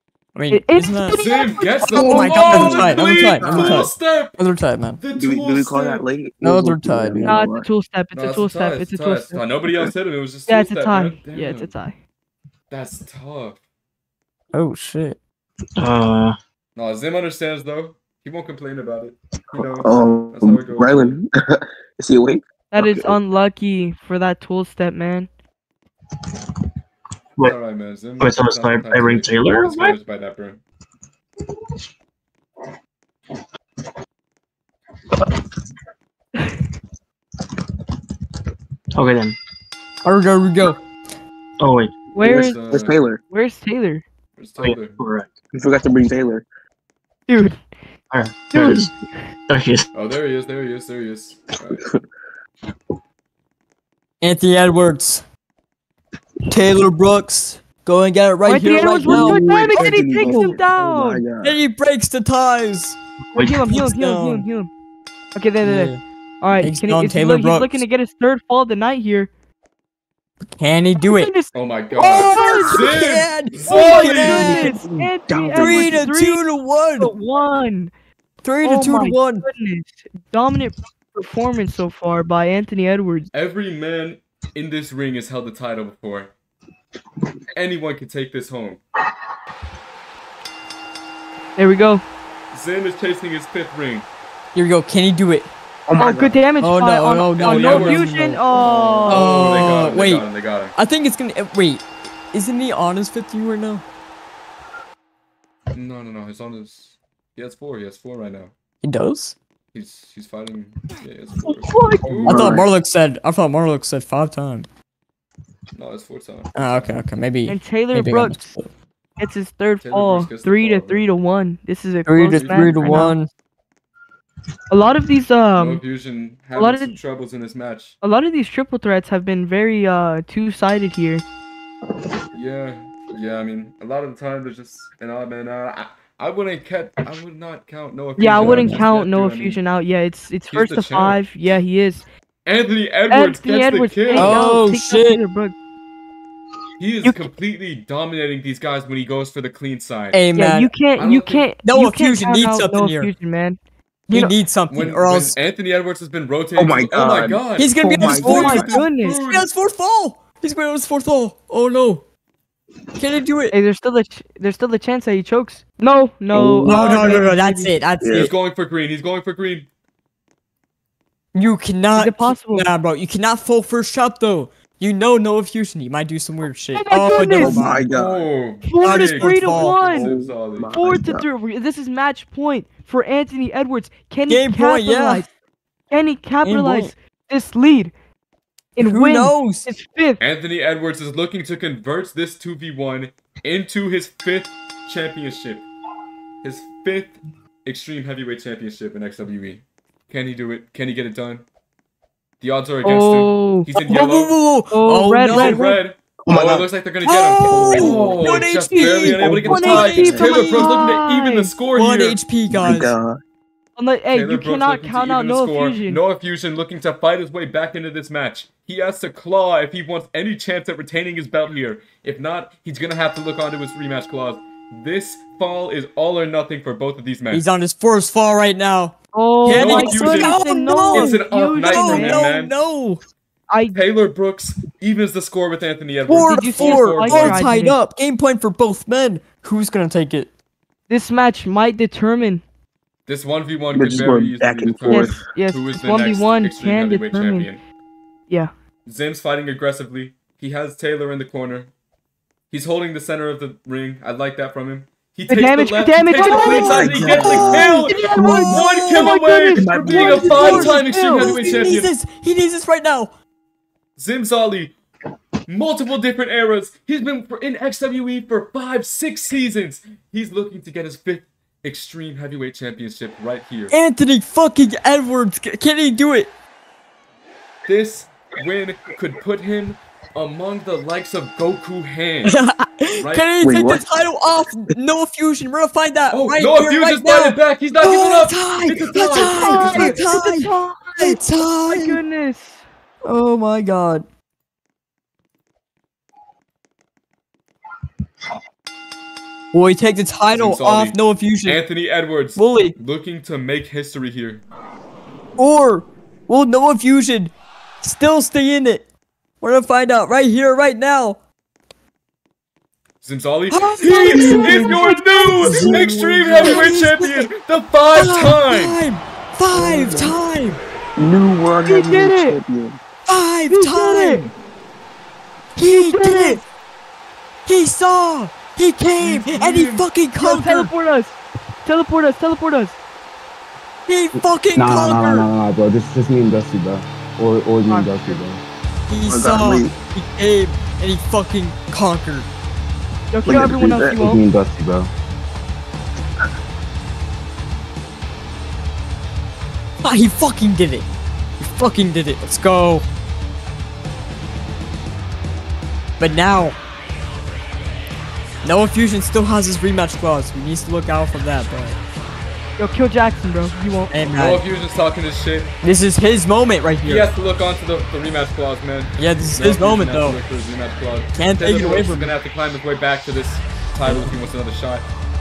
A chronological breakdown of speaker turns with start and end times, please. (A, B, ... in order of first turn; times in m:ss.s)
0:00.3-0:01.2 A
0:00.5-0:01.6 B
0:01.1-0:04.4 C
0:01.8-0:05.0 A
0:01.9-0:03.9 D
0:05.0-0:06.0 C
0:05.2-0:07.7 D
0:06.4-0:07.4 A
0:07.2-0:09.4 B
0:08.1-0:11.7 C
0:10.5-0:12.0 B
0:12.7-0:13.6 C
0:14.5-0:15.2 A
0:15.8-0:16.4 E
0:16.7-0:21.2 C
0:19.5-0:23.2 D
0:22.7-0:25.3 B
0:27.4-0:30.6 C
0:28.2-0:29.9 E
0:39.0-0:39.4 E
0:40.0-0:40.8 A
0:41.6-0:42.0 E
0:42.1-0:42.6 B
0:42.2-0:43.2 D
0:42.2-0:43.0 C
0:43.3-0:44.0 B
0:44.4-0:45.0 C
0:44.6-0:45.3 E
0:45.5-0:46.4 D
0:47.3-0:47.6 B
0:48.1-0:48.9 E
0:48.5-0:48.9 B
0:49.5-0:49.8 E
0:49.9-0:51.9 C
0:54.2-0:55.2 A
0:56.5-1:00.5 A
0:58.4-1:01.2 B
0:59.0-1:01.6 D
1:01.4-1:04.4 A
1:03.4-1:03.7 E
1:03.4-1:04.7 B
1:05.4-1:09.3 B
1:05.6-1:06.0 A
1:06.6-1:07.8 A
1:10.6-1:11.3 A
1:11.0-1:11.5 B
1:11.5-1:14.6 C
1:11.9-1:14.8 A
1:12.0-1:13.0 B
1:13.6-1:16.4 B
1:14.2-1:16.0 D
1:15.5-1:17.1 A
1:17.0-1:17.9 B
1:18.4-1:19.5 A
1:18.6-1:23.3 B
1:23.3-1:26.3 C
1:27.5-1:28.8 C
1:31.6-1:32.0 B
1:32.5-1:34.0 C
1:34.5-1:35.5 A
1:35.9-1:36.4 D
1:36.0-1:39.6 B
1:36.6-1:38.4 A
1:37.4-1:40.7 C
1:39.0-1:43.8 A
1:45.7-1:48.5 C
1:48.8-1:49.4 A
1:49.7-1:52.6 C
1:51.7-1:52.2 B
1:52.2-1:52.7 D
1:52.2-1:54.7 A
1:55.7-1:57.0 C
1:56.5-1:58.7 A
1:57.5-1:58.5 B
1:59.2-2:03.2 B
1:59.8-2:01.0 C
2:02.0-2:03.3 A
2:02.4-2:03.1 C
2:04.7-2:05.8 B
2:05.6-2:08.0 C
2:06.6-2:07.0 B
2:08.0-2:11.2 B
2:12.3-2:19.6 C
2:18.2-2:22.0 B
2:18.3-2:18.8 A
2:20.5-2:21.2 C
2:22.4-2:24.4 C
2:23.1-2:25.5 B
2:24.1-2:25.2 A
2:26.8-2:30.2 C
2:30.1-2:30.7 A
2:30.3-2:33.6 B
2:30.9-2:31.5 C
2:31.6-2:33.1 A
2:34.1-2:35.4 A
2:34.1-2:34.4 B
2:34.7-2:39.5 C
2:36.6-2:38.8 D
2:37.6-2:42.0 A
2:38.2-2:39.2 B
2:43.0-2:43.5 A
2:43.5-2:47.8 B
2:46.3-2:47.1 D
2:46.6-2:48.3 A
2:48.0-2:48.3 D
2:48.1-2:49.7 C
2:51.3-2:57.8 A
2:52.0-2:52.7 B
2:56.8-2:57.6 B
2:57.3-2:58.3 D
2:57.9-3:00.7 C
2:58.6-3:00.1 B
2:58.8-3:00.0 A
2:59.9-3:01.2 D
3:00.7-3:05.3 B
3:04.3-3:05.2 A
3:05.9-3:07.9 B
3:06.4-3:06.9 A
3:08.8-3:10.2 B
3:08.8-3:09.7 A
3:10.2-3:15.7 C
3:16.4-3:21.4 C
3:22.4-3:24.4 C
3:22.8-3:23.7 B
3:23.8-3:25.8 A
3:24.7-3:25.8 B
3:25.3-3:32.2 C
3:26.3-3:26.7 D
3:27.0-3:30.8 A
3:27.4-3:30.2 D
3:29.5-3:31.5 B
3:31.7-3:32.9 A
3:32.5-3:33.2 D
3:33.8-3:36.0 B
3:34.1-3:47.4 C
3:47.3-3:53.0 A
3:49.1-3:52.3 B
3:49.5-3:52.6 C
3:53.5-3:53.8 B
3:53.7-3:57.4 C
3:56.1-4:00.3 A
3:56.3-3:57.8 B
4:00.9-4:02.4 B
4:03.0-4:07.6 C
4:03.7-4:05.2 D
4:04.9-4:07.5 B
4:08.8-4:11.7 C
4:12.5-4:21.9 C
4:15.3-4:21.4 B
4:16.1-4:19.2 A
4:16.4-4:18.5 D
4:19.5-4:21.6 D
4:19.9-4:23.1 A
4:24.0-4:24.7 C
4:25.5-4:33.7 C
4:33.7-4:36.3 A
4:37.6-4:42.4 C
4:42.2-4:52.0 A
4:43.0-4:43.3 C
4:43.4-4:43.8 D
4:46.1-4:50.1 C
4:49.2-4:52.6 B
4:53.0-4:54.1 A
4:59.5-5:01.6 A
5:00.3-5:04.4 C
5:02.4-5:02.8 A
5:05.4-5:08.9 A
5:09.4-5:11.2 A
5:13.0-5:18.8 C
5:13.5-5:17.3 A
5:14.0-5:15.7 B
5:17.9-5:20.6 A
5:19.5-5:20.2 D
5:21.0-5:22.8 D
5:21.6-5:22.4 B
5:23.1-5:24.3 A
5:23.5-5:24.3 B
5:25.6-5:26.4 A
5:25.6-5:26.4 B
5:27.5-5:30.7 A
5:29.0-5:29.8 C
5:30.2-5:32.8 B
5:33.9-5:35.3 A
5:34.5-5:38.4 F
5:37.7-5:38.2 B
5:38.9-5:42.3 A
5:38.9-5:39.7 D
5:43.1-5:44.2 B
5:43.2-5:44.0 D
5:43.9-5:44.9 F
5:49.8-5:50.9 A
5:51.4-5:52.8 A
5:56.0-5:56.6 A
5:58.4-6:01.8 A
6:02.6-6:03.9 B
6:03.9-6:04.4 A
6:04.2-6:05.5 C
6:05.6-6:07.1 A
6:06.8-6:14.8 C
6:09.0-6:10.2 A
6:11.1-6:12.1 A
6:13.8-6:14.1 A